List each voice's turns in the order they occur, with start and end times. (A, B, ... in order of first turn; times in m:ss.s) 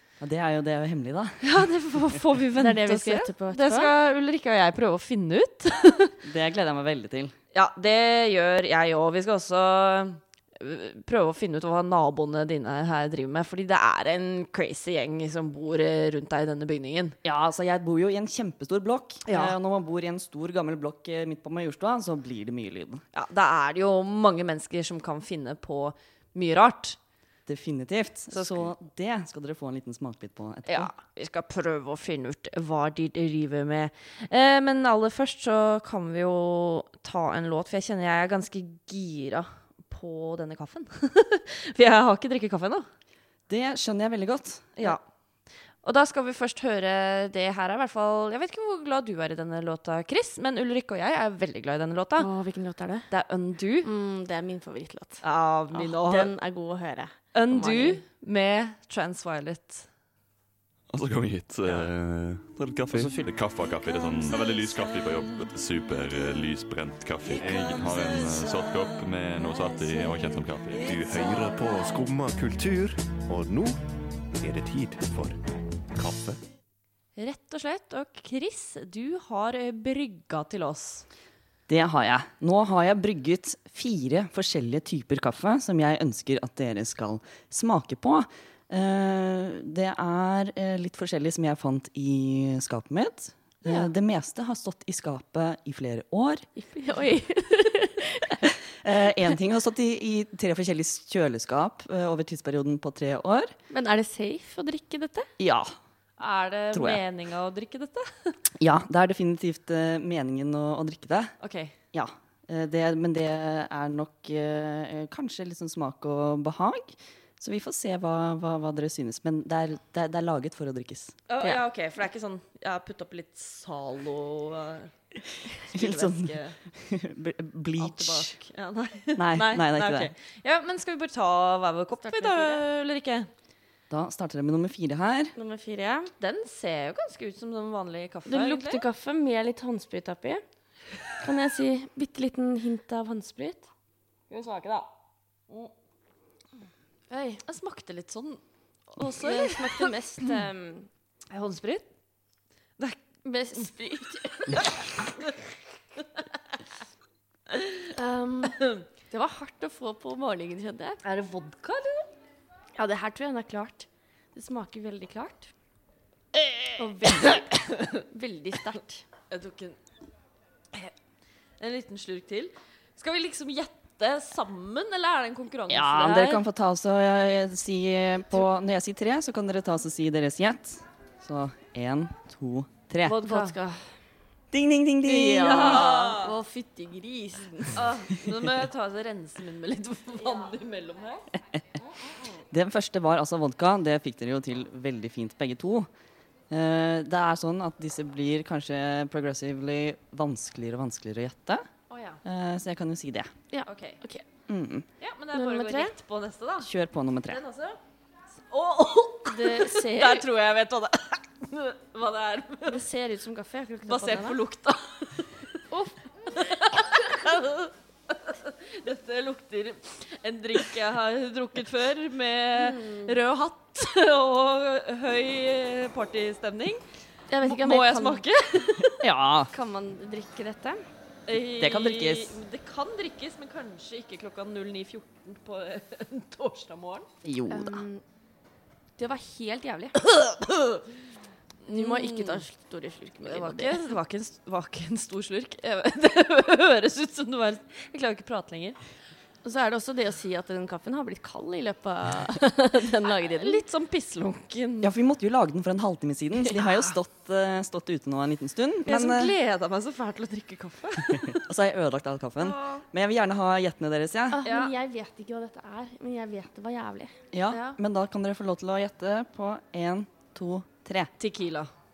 0:00.2-0:01.5 A
0:01.4-0:06.2 B
0:02.6-0:03.9 C
0:06.2-0:07.3 A
0:07.5-0:17.2 B
0:17.2-0:23.0 A
0:19.2-0:19.6 B
0:23.1-0:27.0 B
0:27.5-0:30.9 A
0:28.3-0:28.7 B
0:30.7-0:42.9 B
0:43.5-0:44.9 A
0:45.8-0:52.3 B
0:52.2-0:53.1 C
0:53.1-0:53.9 B
0:53.8-0:58.0 C
0:55.2-0:56.3 B
0:57.3-0:59.9 B
1:00.9-1:11.2 D
1:10.9-1:13.8 E
1:14.3-1:15.4 E
1:16.0-1:16.4 E
1:17.2-1:21.0 B
1:21.7-1:36.5 A
1:36.6-1:38.5 C
1:38.7-1:43.5 A
1:43.7-1:45.3 C
1:45.4-1:45.8 A
1:46.2-1:48.4 B
1:46.7-1:47.0 A
1:48.6-1:51.3 A
1:51.4-1:51.8 B
1:51.9-2:01.2 A
2:01.3-2:04.9 B
2:05.6-2:06.6 B
2:05.7-2:08.4 A
2:07.8-2:13.3 B
2:09.2-2:10.1 A
2:12.0-2:12.6 C
2:13.9-2:15.4 A
2:15.4-2:16.1 C
2:16.2-2:18.8 B
2:18.3-2:20.4 C
2:21.2-2:23.7 C
2:24.3-2:24.9 B
2:27.1-2:27.4 C
2:27.4-2:28.4 B
2:28.9-2:29.9 B
2:29.2-2:30.9 C
2:31.3-2:31.8 B
2:33.2-2:34.7 C
2:34.5-2:35.3 B
2:37.5-2:38.9 B
2:39.1-2:41.0 C
2:41.0-2:42.1 B
2:42.8-2:45.5 C
2:46.8-2:49.0 C
2:47.0-2:48.0 B
2:49.3-2:49.8 B
2:51.6-2:56.4 B
2:55.7-3:03.2 A
3:03.1-3:03.9 C
3:03.2-3:03.6 B
3:04.5-3:06.1 A
3:05.0-3:07.8 C
3:05.4-3:06.3 B
3:07.8-3:11.3 B
3:12.4-3:15.9 A
3:16.5-3:21.7 A
3:21.9-3:22.2 B
3:22.2-3:23.3 A
3:23.5-3:24.2 C
3:23.7-3:24.0 B
3:24.5-3:24.9 A
3:25.0-3:26.7 B
3:25.3-3:25.9 C
3:26.6-3:27.4 A
3:27.3-3:27.8 B
3:28.5-3:32.8 B
3:29.3-3:30.3 C
3:32.7-3:34.4 C
3:33.9-3:35.6 B
3:35.7-3:36.0 C
3:36.2-3:46.8 B
3:36.8-3:37.1 C
3:42.5-3:43.2 C
3:47.3-3:48.2 C
3:47.4-3:49.0 B
3:49.0-3:49.5 A
3:49.5-3:50.8 C
3:51.3-3:57.1 B
3:51.6-3:52.4 A
3:57.2-3:57.8 A
3:57.5-3:58.0 C
3:59.0-4:00.0 C
4:00.0-4:00.8 B
4:01.6-4:02.4 B
4:01.7-4:03.8 C
4:03.2-4:08.8 B
4:09.4-4:13.6 C
4:13.1-4:14.9 B
4:14.8-4:19.4 A
4:18.9-4:21.4 B
4:21.1-4:24.4 A
4:22.4-4:22.8 B
4:24.3-4:27.2 C
4:24.4-4:24.7 B
4:27.3-4:31.1 A
4:27.5-4:27.8 B
4:31.2-4:31.7 B